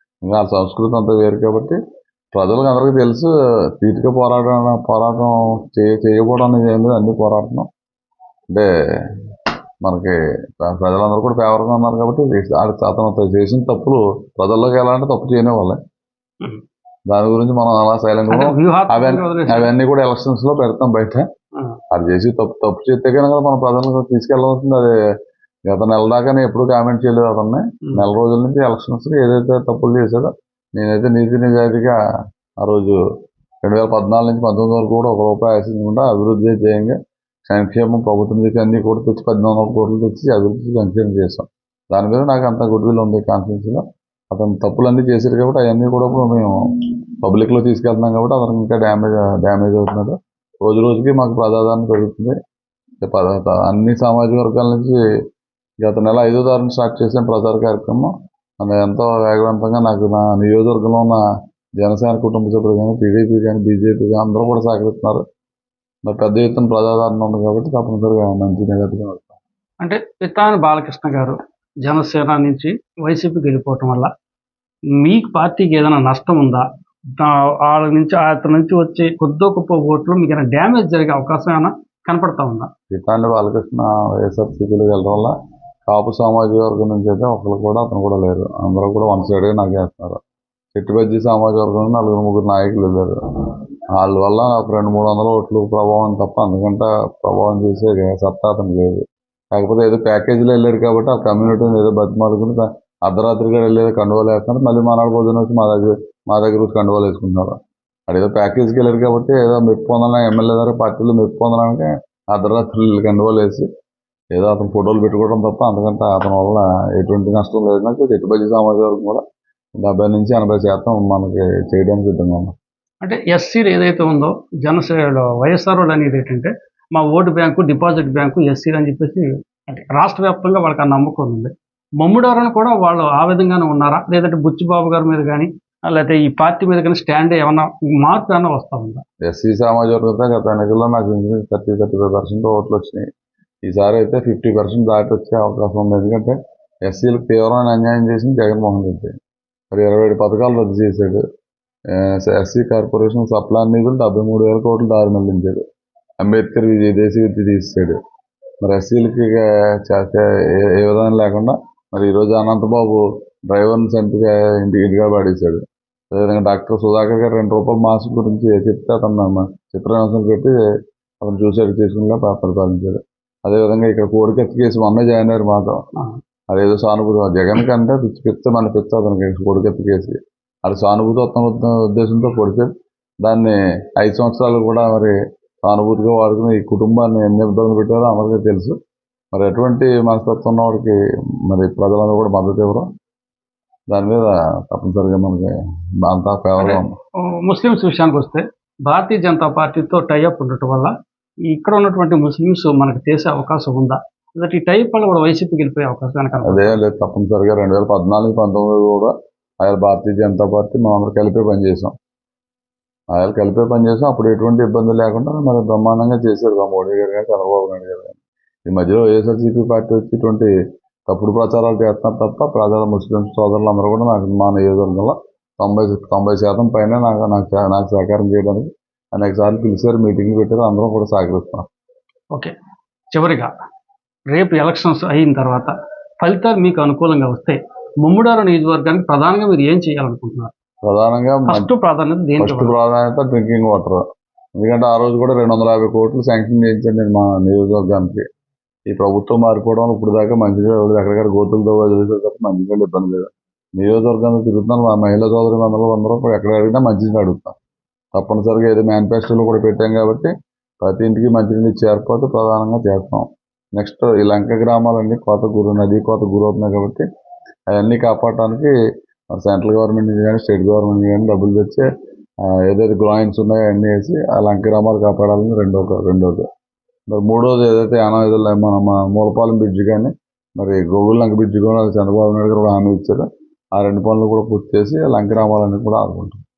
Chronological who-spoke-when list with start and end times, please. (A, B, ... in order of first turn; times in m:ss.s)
0:00.2-0:01.8 A
0:02.3-0:07.7 A
0:09.8-0:15.8 A
0:17.1-0:21.2 A
0:18.3-0:19.7 B
0:21.9-0:24.9 A
0:25.7-0:32.0 A
0:32.6-0:33.0 A
0:33.6-0:46.6 A
0:47.2-0:52.4 A
0:53.0-0:55.0 A
0:55.8-1:01.2 A
1:01.8-1:05.2 A
1:06.0-1:09.4 A
1:09.8-1:14.1 B
1:15.0-1:16.7 B
1:17.2-1:22.7 B
1:22.9-1:25.3 A
1:25.9-1:30.2 A
1:30.8-1:33.2 A
1:34.0-1:39.0 A
1:39.5-1:47.6 A
1:48.1-1:53.7 A
1:54.3-1:59.2 A
1:59.8-2:02.5 A
2:03.0-2:19.0 B
2:19.2-2:23.1 A
2:23.6-2:29.1 A
2:29.7-2:31.2 A
2:31.9-2:35.6 A
2:36.2-2:38.0 A
2:38.6-2:50.6 A
2:51.2-2:55.8 A
2:56.5-3:02.7 A
3:03.2-3:08.8 A
3:09.3-3:12.9 A
3:13.9-3:15.5 A
3:16.0-3:17.0 A
3:16.6-3:20.9 B
3:21.5-3:26.8 B
3:26.4-3:32.0 A
3:33.1-3:40.5 A
3:41.1-3:51.7 A
3:53.1-3:53.5 B
3:54.3-4:00.5 B
4:00.8-4:01.7 A
4:01.5-4:02.8 B
4:02.4-4:04.0 A
4:04.6-4:08.2 A
4:08.9-4:17.6 A
4:18.1-4:27.0 A
4:27.7-4:28.7 A
4:29.3-4:31.9 A
4:32.4-4:36.5 A
4:37.1-4:43.2 A
4:43.8-4:46.4 A